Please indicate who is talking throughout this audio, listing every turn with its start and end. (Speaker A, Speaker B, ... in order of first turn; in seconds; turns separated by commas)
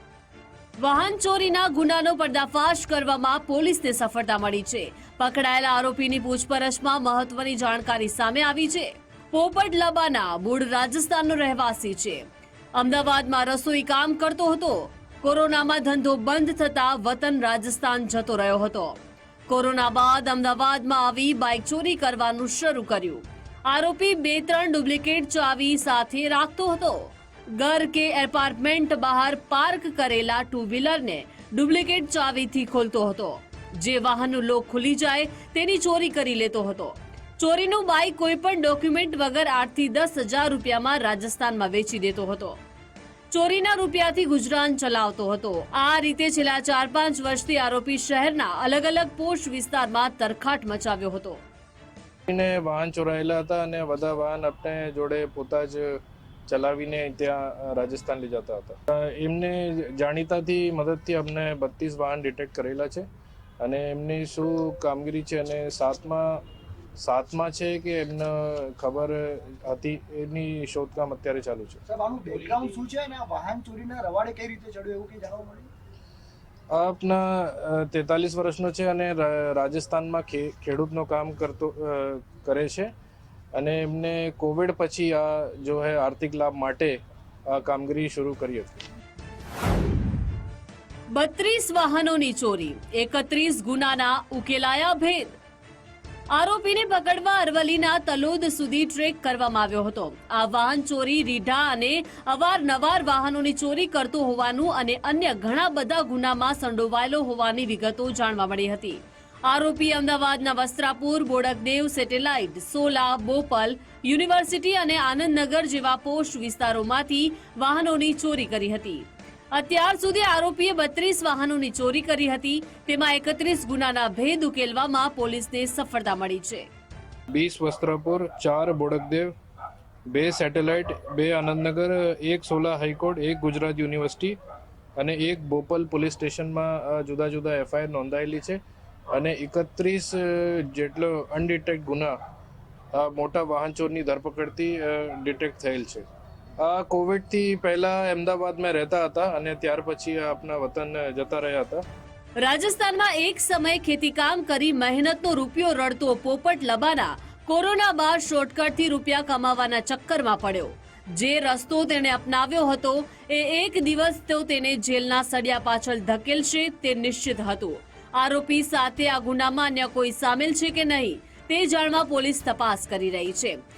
Speaker A: 0.8-12.2, Speaker A: 12.7-42.6, Speaker A: 43.3-51.4, Speaker B: 52.3-63.0, Speaker B: 63.6-66.4, Speaker B: 67.0-71.8, Speaker C: 71.9-75.7, Speaker B: 76.7-82.9, Speaker B: 83.5-88.8, Speaker A: 91.1-95.4, Speaker A: 96.3-126.7, Speaker B: 127.3-129.3, Speaker B: 130.1-134.3, Speaker B: 135.0-138.6, Speaker B: 139.1-142.2, Speaker B: 142.9-146.1, Speaker B: 146.6-151.8, Speaker A: 152.4-173.6